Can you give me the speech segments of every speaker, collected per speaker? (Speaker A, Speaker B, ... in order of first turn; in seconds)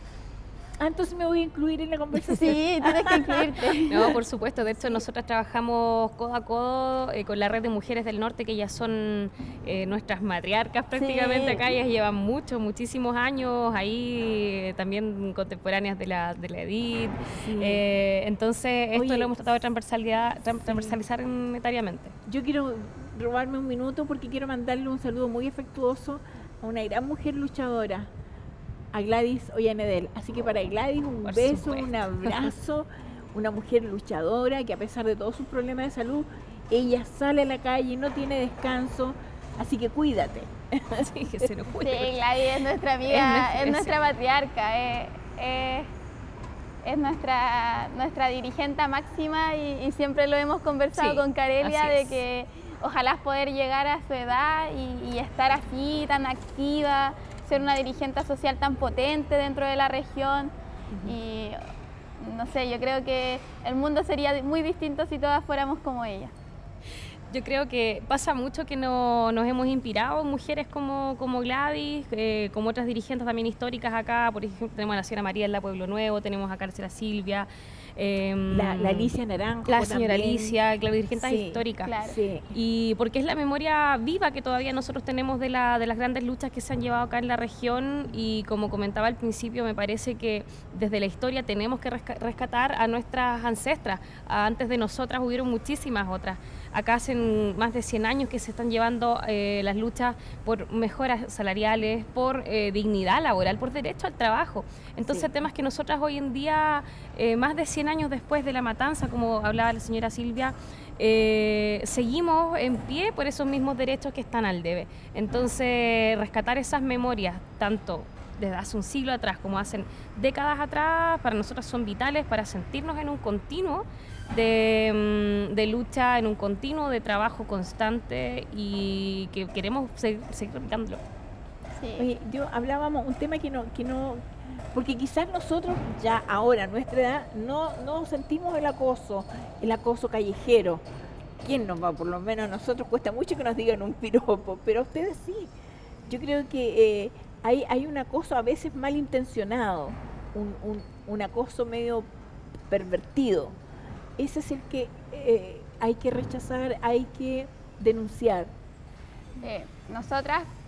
Speaker A: 0.8-3.5, 17.3-17.8, 18.9-19.3, 20.7-21.0, 22.3-28.1, 28.9-41.5, 78.5-80.6, 81.1-82.5, 105.0-105.3, 132.0-134.2, 134.7-140.8, 141.4-145.5, 146.1-152.1, 152.7-153.5, 154.2-158.5
Speaker B: 2.1-4.2, 10.9-11.6, 41.8-45.9, 46.8-60.5, 61.0-61.6, 62.2-66.3, 81.8-82.1, 131.8-132.1, 159.4-160.5
Speaker C: 3.9-22.1, 31.2-32.5, 41.0-42.2, 43.0-44.0, 50.9-52.2, 67.3-79.1, 79.7-81.9, 82.5-131.0